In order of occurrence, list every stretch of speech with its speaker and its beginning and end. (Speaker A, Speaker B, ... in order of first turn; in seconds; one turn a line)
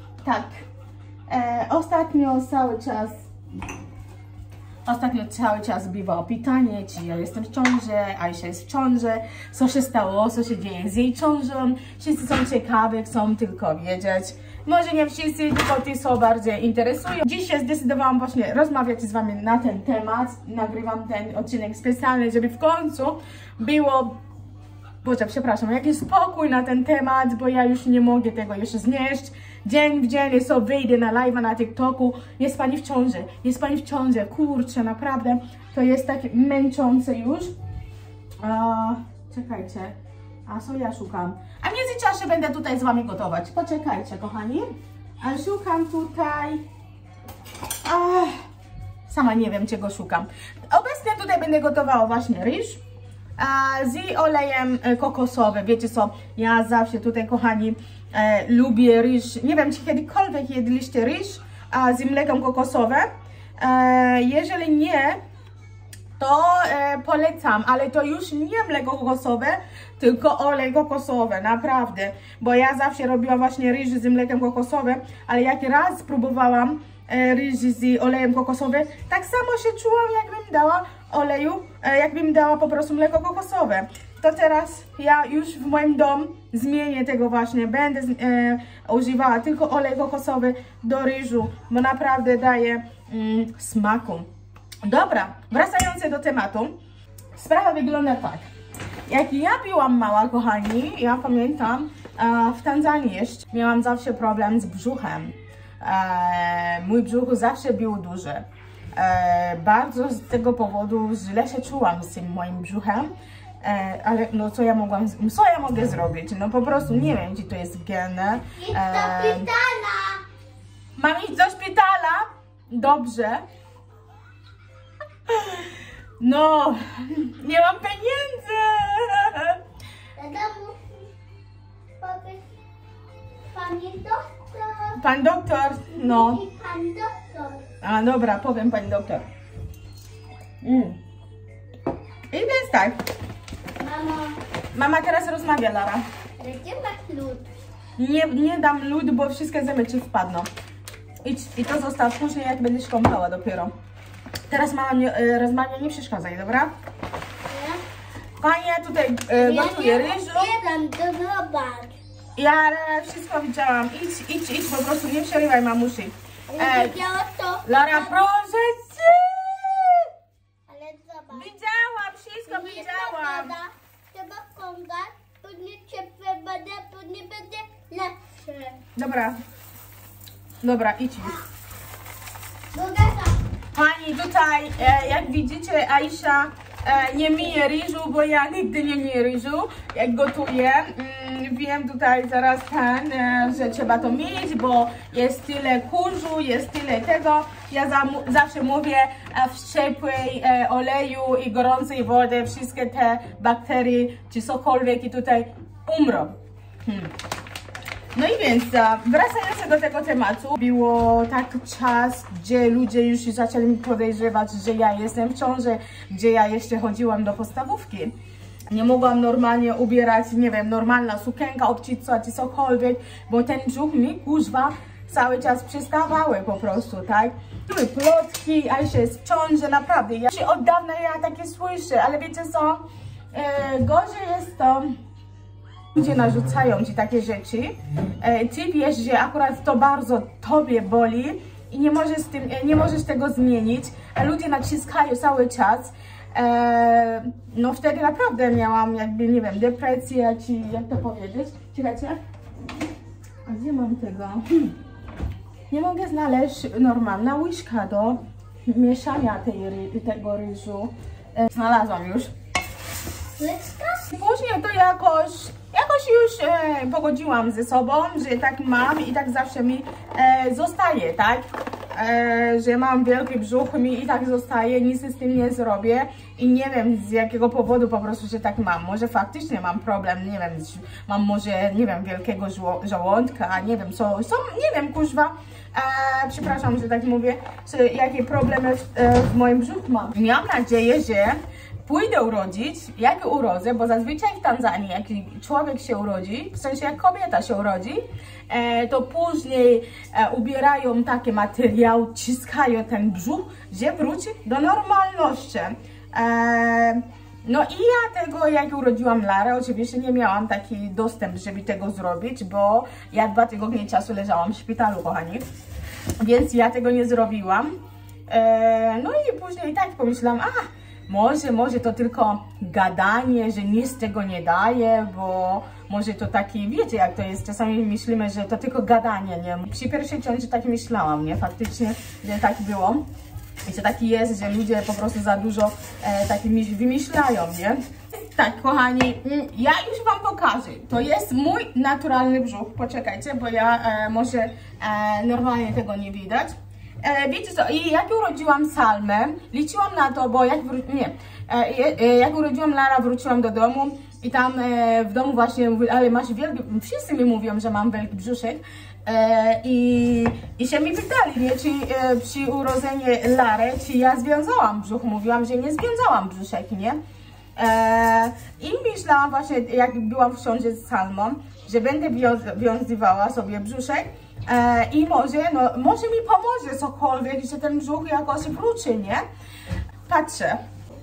Speaker A: 0.2-0.7
Speaker A: 1.3-3.3
Speaker A: 4.9-24.1
Speaker A: 25.0-37.5
Speaker A: 38.4-40.0
Speaker A: 40.5-44.7
Speaker A: 45.2-46.6
Speaker A: 47.8-48.4
Speaker A: 49.1-52.8
Speaker A: 53.4-63.1
Speaker A: 63.6-65.2
Speaker A: 66.2-94.3
Speaker A: 94.8-96.7
Speaker A: 97.4-98.5
Speaker A: 99.1-113.1
Speaker A: 113.6-119.5
Speaker B: 118.6-120.2
Speaker A: 121.0-123.4
Speaker A: 125.3-129.6
Speaker B: 130.2-131.1
Speaker B: 132.0-132.5
Speaker B: 133.5-135.0
Speaker A: 135.0-136.4
Speaker B: 135.9-137.7
Speaker A: 137.8-139.3
Speaker A: 140.6-141.0
Speaker A: 142.3-143.0
Speaker B: 143.8-144.4
Speaker A: 144.7-146.0
Speaker B: 146.4-147.5
Speaker A: 148.0-150.5
Speaker A: 151.2-153.7
Speaker A: 154.5-156.7
Speaker B: 157.5-157.8
Speaker A: 158.4-160.5
Speaker B: 159.4-162.0
Speaker A: 162.4-167.0
Speaker B: 166.5-168.1
Speaker A: 167.6-170.1
Speaker B: 170.7-171.6
Speaker A: 171.3-173.5
Speaker B: 172.5-178.8
Speaker A: 179.0-179.4
Speaker A: 180.6-181.4
Speaker B: 182.7-183.4
Speaker A: 183.7-206.3
Speaker A: 206.8-207.1
Speaker A: 208.2-218.1
Speaker A: 218.7-235.0
Speaker A: 235.9-252.2
Speaker A: 253.5-254.7
Speaker A: 255.7-262.3
Speaker B: 263.4-264.1
Speaker A: 264.1-315.4
Speaker A: 316.2-317.7
Speaker A: 318.3-333.0
Speaker A: 333.7-367.0
Speaker A: 367.6-379.2
Speaker A: 380.1-380.6